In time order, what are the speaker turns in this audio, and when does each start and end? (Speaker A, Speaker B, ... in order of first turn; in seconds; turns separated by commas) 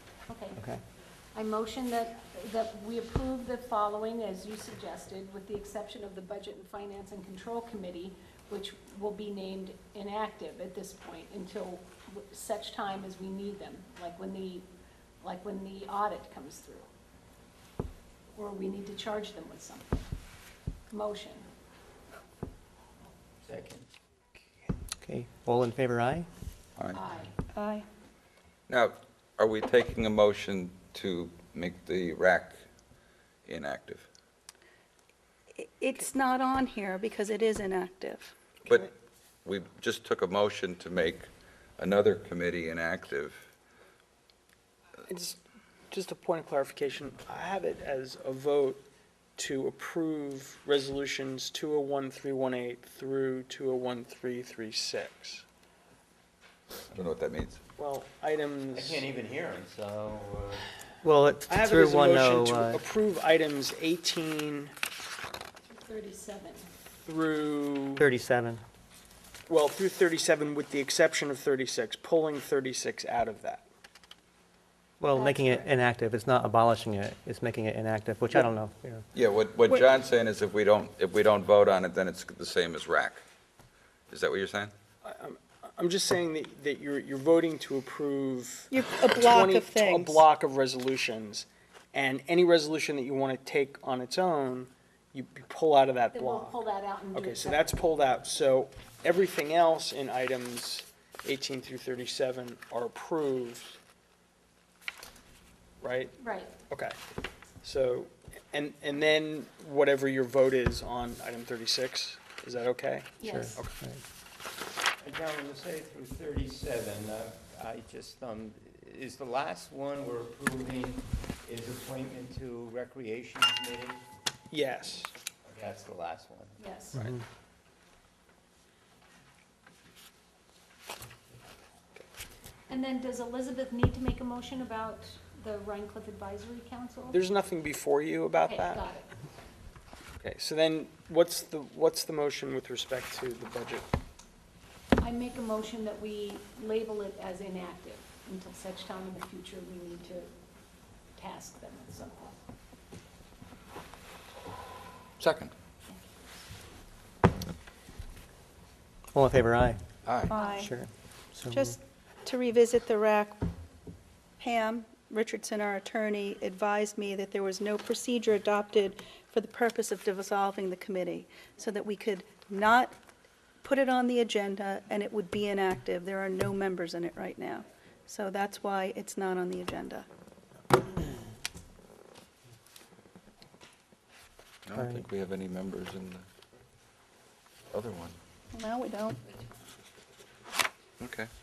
Speaker A: 0.3-0.6, Speaker B: 0.6-0.8, Speaker A: 1.3-14.7, Speaker A: 15.2-16.9, Speaker A: 18.4-20.1, Speaker A: 20.9-21.5, Speaker C: 23.4-23.9, Speaker B: 25.0-26.3, Speaker D: 26.8-27.0, Speaker A: 26.9-27.3, Speaker E: 27.6-27.9, Speaker D: 28.7-32.6, Speaker D: 33.5-34.1, Speaker E: 35.8-38.3, Speaker D: 38.6-38.9, Speaker D: 39.5-43.5, Speaker F: 45.1-45.4, Speaker F: 45.9-48.8, Speaker F: 49.4-55.5, Speaker D: 56.9-57.6, Speaker F: 57.8-59.1, Speaker C: 58.7-60.7, Speaker B: 61.0-62.8, Speaker F: 61.5-64.7, Speaker A: 65.7-66.7, Speaker F: 67.1-68.0, Speaker B: 68.0-68.6, Speaker F: 69.5-73.7, Speaker B: 75.0-79.0, Speaker A: 75.1-75.7, Speaker D: 79.1-83.2, Speaker D: 84.1-84.7, Speaker F: 85.0-96.6, Speaker E: 89.0-90.2, Speaker A: 96.1-97.7, Speaker F: 97.1-103.8, Speaker F: 105.8-106.2, Speaker A: 106.2-106.5, Speaker F: 106.7-107.0, Speaker F: 107.6-113.7, Speaker A: 113.2-113.5, Speaker B: 113.2-114.0, Speaker C: 115.0-124.0, Speaker F: 124.5-125.1, Speaker C: 125.4-126.6, Speaker A: 126.6-127.0, Speaker B: 127.0-127.2, Speaker A: 132.7-137.2, Speaker F: 137.1-138.9, Speaker A: 138.5-139.2, Speaker F: 140.2-143.9, Speaker A: 145.0-150.3, Speaker A: 151.2-152.3, Speaker D: 155.2-155.5, Speaker A: 155.9-156.2, Speaker B: 159.1-159.8, Speaker D: 160.1-160.3, Speaker A: 160.3-160.7, Speaker E: 160.3-160.7, Speaker B: 160.6-161.8, Speaker E: 162.3-163.4, Speaker E: 164.4-172.5, Speaker C: 172.6-172.9, Speaker E: 173.7-177.6, Speaker C: 173.9-174.3, Speaker C: 175.1-177.1, Speaker E: 178.4-180.1, Speaker C: 179.1-179.5, Speaker D: 184.7-186.2, Speaker B: 184.8-185.0, Speaker D: 187.7-188.2, Speaker E: 188.6-189.2, Speaker D: 191.0-191.3